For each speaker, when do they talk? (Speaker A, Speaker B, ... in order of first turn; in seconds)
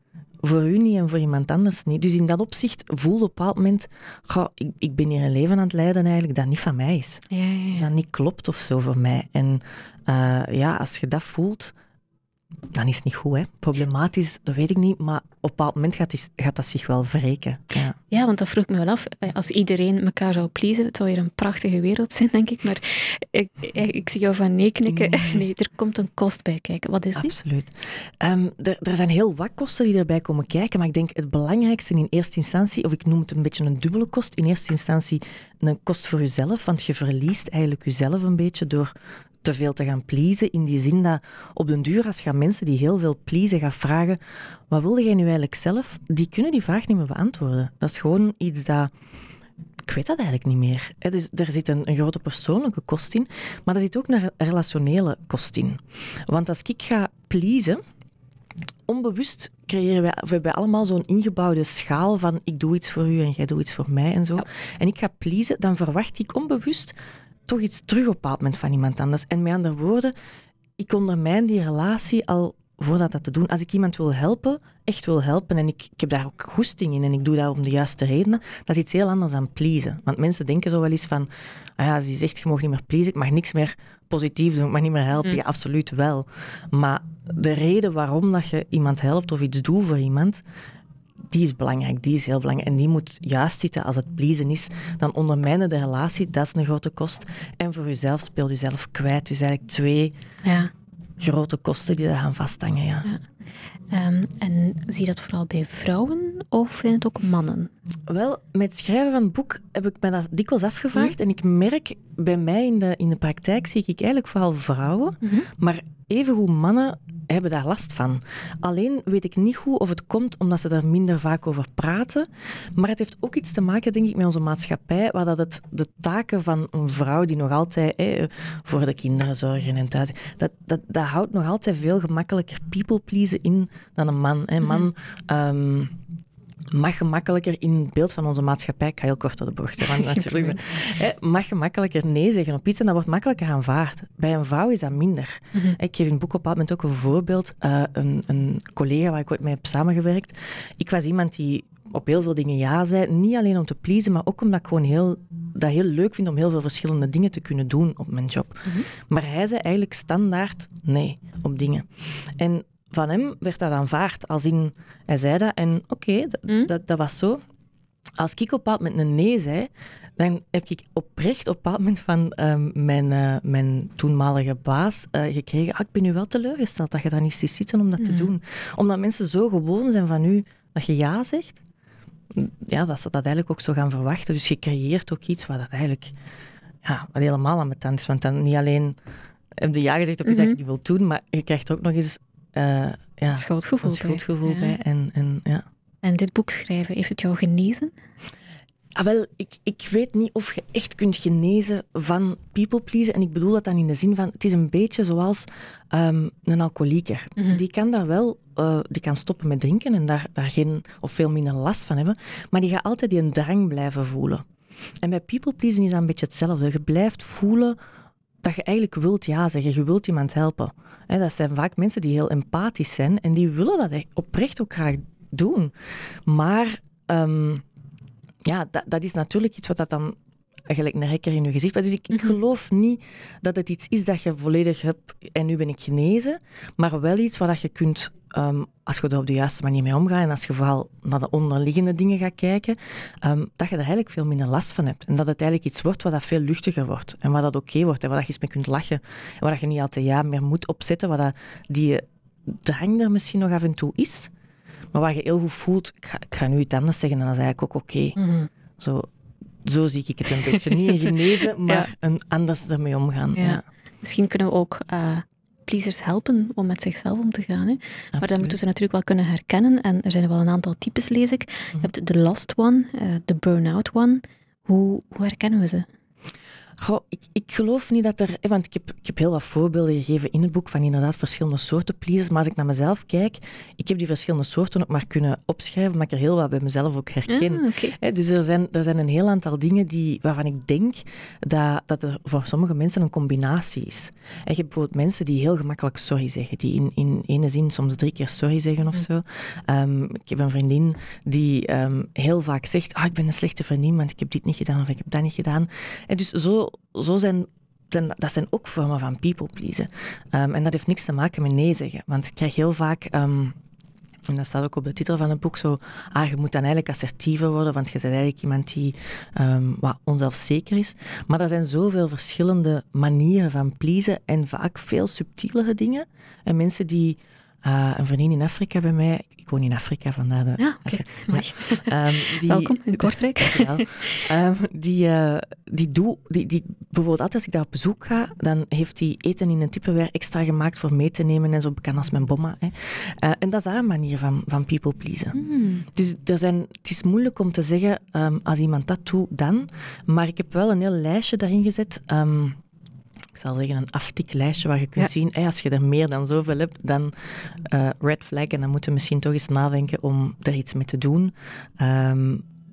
Speaker A: 0.4-7.2, 7.8-11.7, 12.7-17.9, 24.9-25.4, 27.1-48.9, 49.9-57.8, 58.9-67.0, 67.5-70.1, 70.8-90.4, 91.3-100.1, 101.2-103.1, 108.1-135.9, 136.7-167.4, 168.2-181.6, 182.3-186.1, 186.8-189.0, 189.6-195.6, 198.9-214.4, 215.0-217.8, 218.4-225.7, 226.2-227.6, 228.4-254.3, 254.9-258.2, 258.8-259.1, 259.6-263.6, 268.1-268.6, 276.8-313.6, 314.3-352.6, 353.3-362.4
Speaker B: 7.3-7.9, 18.1-27.3, 100.4-100.7, 103.9-107.7, 115.2-115.5, 134.6-134.9, 139.9-140.6, 178.0-178.3, 190.2-190.6, 193.3-194.8, 196.0-197.9, 207.4-207.6, 258.1-258.5, 260.5-261.9, 263.3-275.9, 287.3-287.9, 330.6-334.2, 345.3-345.9